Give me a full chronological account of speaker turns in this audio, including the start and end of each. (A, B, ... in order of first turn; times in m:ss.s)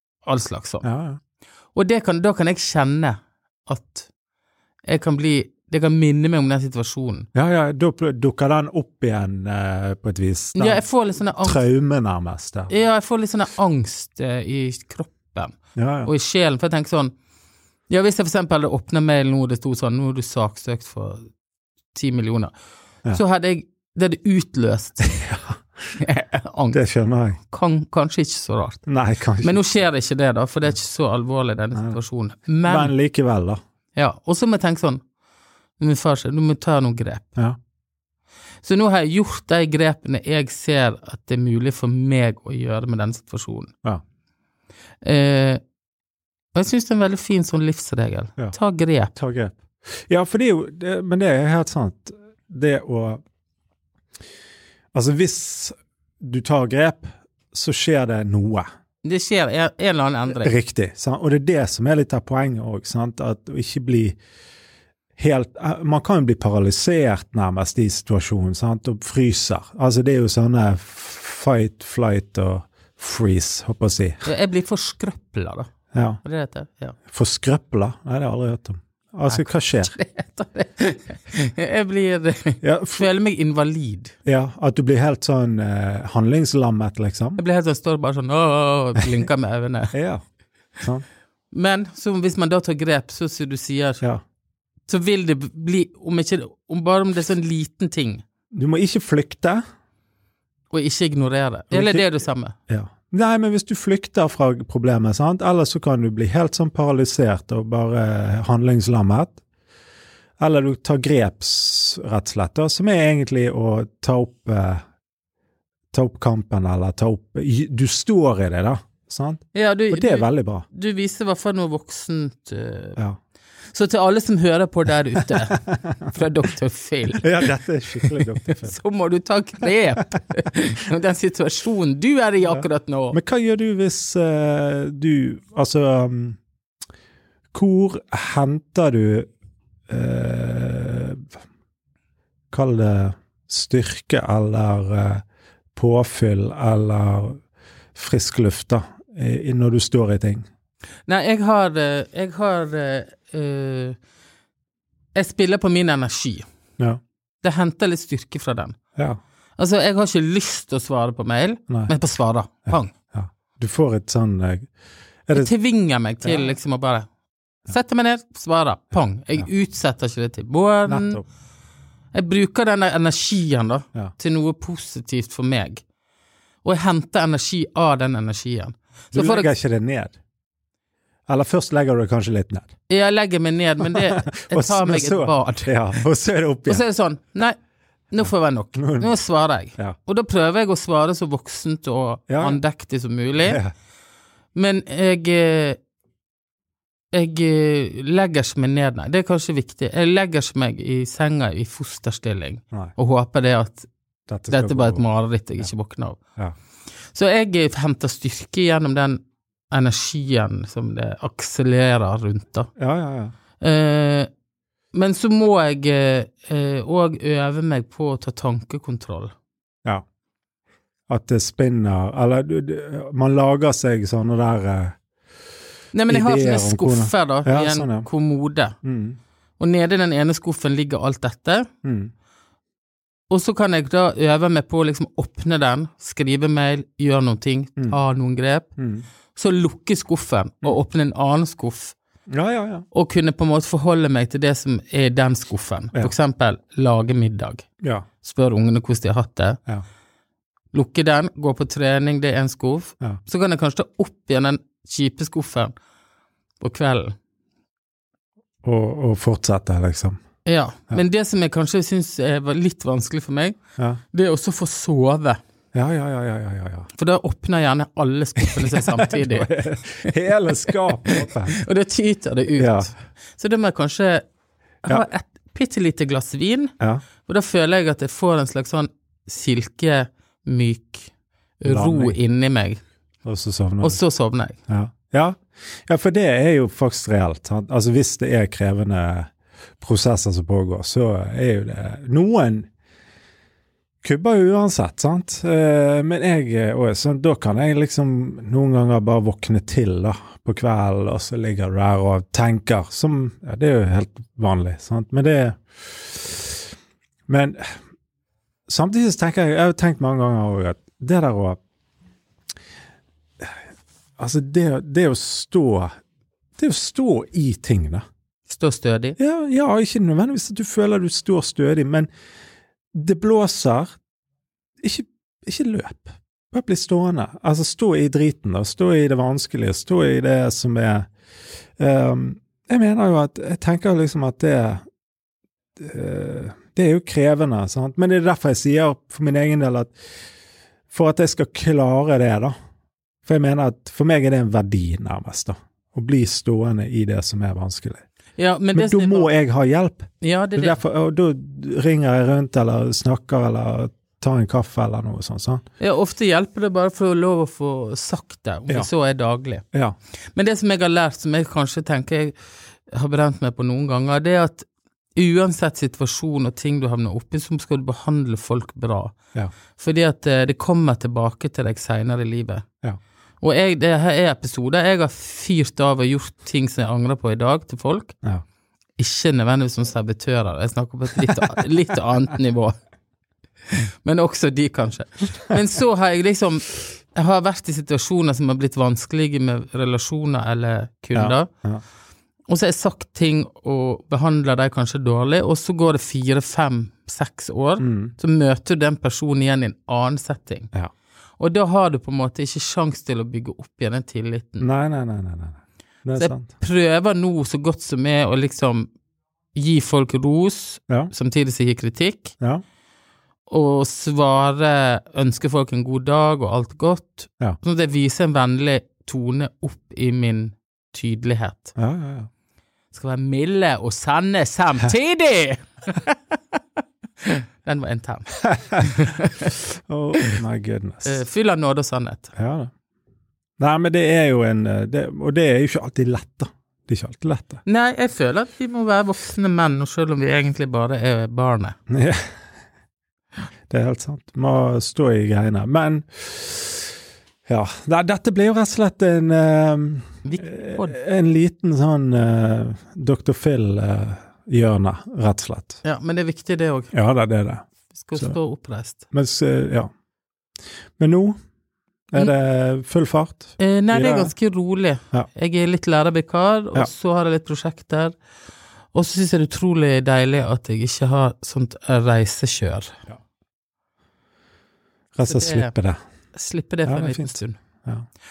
0:00.2-0:00.8 A
0:00.8-0:01.2 B
0:01.8-0:04.1 A
0:04.9-0:07.3 A
0:07.3-0:10.8 B
0:10.5-0:11.6 A
0:11.4-0:12.7 B
0:12.7-0:17.1 A
0:15.8-0:16.1 B
0:17.9-0:21.3 A
0:21.9-0:22.5 A
0:23.1-0:25.2 A
0:25.0-0:25.6 B
0:26.0-0:26.8 A
0:26.7-0:27.4 B
0:27.4-0:28.9 A
0:28.9-0:29.6 B
0:29.4-0:32.9 A
0:31.7-0:32.0 B
0:32.6-0:33.6 B
0:34.0-0:35.0 A
0:35.8-0:37.2 A
0:38.6-0:43.7 A
0:45.0-0:45.6 A
0:46.5-0:49.1 A
0:49.1-0:53.2 B
0:54.9-0:58.6 B
0:59.0-1:00.5 A
1:00.3-1:04.2 B
1:05.2-1:14.2 B
1:14.2-1:15.7 A
1:15.9-1:16.2 B
1:16.2-1:17.0 A
1:17.1-1:19.9 B
1:19.3-1:24.1 A
1:22.6-1:23.1 B
1:24.2-1:27.4 B
1:27.4-1:29.9 A
1:29.9-1:30.2 B
1:31.5-1:34.0 A
1:34.9-1:38.2 A
1:38.5-1:39.6 B
1:40.7-1:42.6 A
1:41.7-1:42.2 B
1:42.7-1:49.4 B
1:50.4-1:54.8 B
1:55.9-2:00.6 B
1:59.5-2:03.0 A
2:03.7-2:13.2 A
2:07.2-2:08.8 B
2:12.4-2:16.4 B
2:17.5-2:19.3 B
2:19.9-2:21.3 B
2:22.5-2:27.4 B
2:27.9-2:30.4 B
2:31.1-2:34.0 A
2:35.1-2:36.4 A
2:37.4-2:38.8 A
2:39.6-2:42.9 A
2:42.7-2:44.7 B
2:45.3-2:47.0 A
2:46.2-2:46.6 B
2:47.7-2:51.2 A
2:50.9-2:51.2 B
2:52.1-2:55.8 A
2:56.6-2:59.5 A
2:59.1-3:00.2 B
3:01.3-3:02.8 B
3:02.9-3:06.0 A
3:04.0-3:06.8 B
3:06.6-3:07.6 A
3:08.1-3:13.6 A
3:08.8-3:09.1 B
3:12.3-3:12.6 B
3:13.4-3:13.7 B
3:14.5-3:15.8 A
3:17.1-3:23.9 A
3:24.3-3:25.0 B
3:24.5-3:26.2 A
3:27.1-3:29.2 A
3:29.7-3:32.7 A
3:32.8-3:33.3 B
3:33.6-3:34.3 A
3:34.9-3:39.3 A
3:41.1-3:45.0 B
3:45.9-3:48.8 A
3:46.1-3:48.1 B
3:48.8-3:49.2 B
3:49.6-3:51.7 A
3:51.8-3:52.1 B
3:53.3-3:58.7 A
3:58.8-3:59.0 B
3:59.3-4:02.0 A
4:02.3-4:02.9 B
4:02.9-4:07.6 A
4:08.2-4:09.6 A
4:10.7-4:15.7 A
4:16.6-4:17.1 A
4:18.6-4:20.2 B
4:20.4-4:23.6 A
4:24.1-4:25.4 A
4:25.7-4:26.9 B
4:26.9-4:30.1 A
4:28.4-4:31.6 B
4:30.7-4:34.2 A
4:32.6-4:32.9 B
4:34.8-4:36.7 A
4:37.2-4:42.8 A
4:41.6-4:42.2 B
4:43.2-4:44.0 B
4:43.8-4:44.6 A
4:44.7-4:52.7 B
4:54.0-5:06.7 B
5:07.3-5:07.8 B
5:08.7-5:11.6 B
5:14.2-5:15.9 B
5:16.6-5:18.0 B
5:18.5-5:19.2 A
5:19.2-5:22.1 B
5:22.9-5:23.9 B
5:24.8-5:31.1 B
5:31.8-5:34.8 B
5:35.8-5:39.9 B
5:40.9-5:42.5 B
5:43.2-5:48.0 B
5:48.4-5:49.3 A
5:48.7-5:55.6 B
5:50.2-5:50.8 A
5:55.8-5:59.6 A
6:00.3-6:09.1 A
6:09.8-6:12.6 A
6:13.4-6:18.2 A
6:19.0-6:22.8 A
6:23.7-6:31.5 A
6:31.1-6:31.8 B
6:32.5-6:40.7 A
6:37.8-6:38.1 B
6:41.4-6:44.7 A
6:44.6-6:46.5 B
6:46.2-6:48.9 A
6:49.5-6:52.4 A
6:53.5-7:01.8 A
7:01.8-7:02.3 B
7:02.9-7:06.2 A
7:07.2-7:09.5 A
7:09.9-7:11.2 B
7:11.0-7:12.3 A
7:12.4-7:12.7 B
7:13.6-7:17.6 B
7:17.6-7:21.8 A
7:21.9-7:22.3 B
7:23.7-7:26.9 B
7:27.4-7:35.8 B
7:30.2-7:31.0 A
7:35.8-7:36.9 A
7:36.9-7:38.4 B
7:37.9-7:39.0 A
7:39.1-7:39.9 B
7:41.0-7:41.4 B
7:42.1-7:44.4 B
7:43.6-7:48.2 A
7:48.9-7:53.0 A
7:55.1-7:56.0 B
7:55.2-7:55.7 A
7:56.3-7:57.6 A
7:56.8-7:58.0 B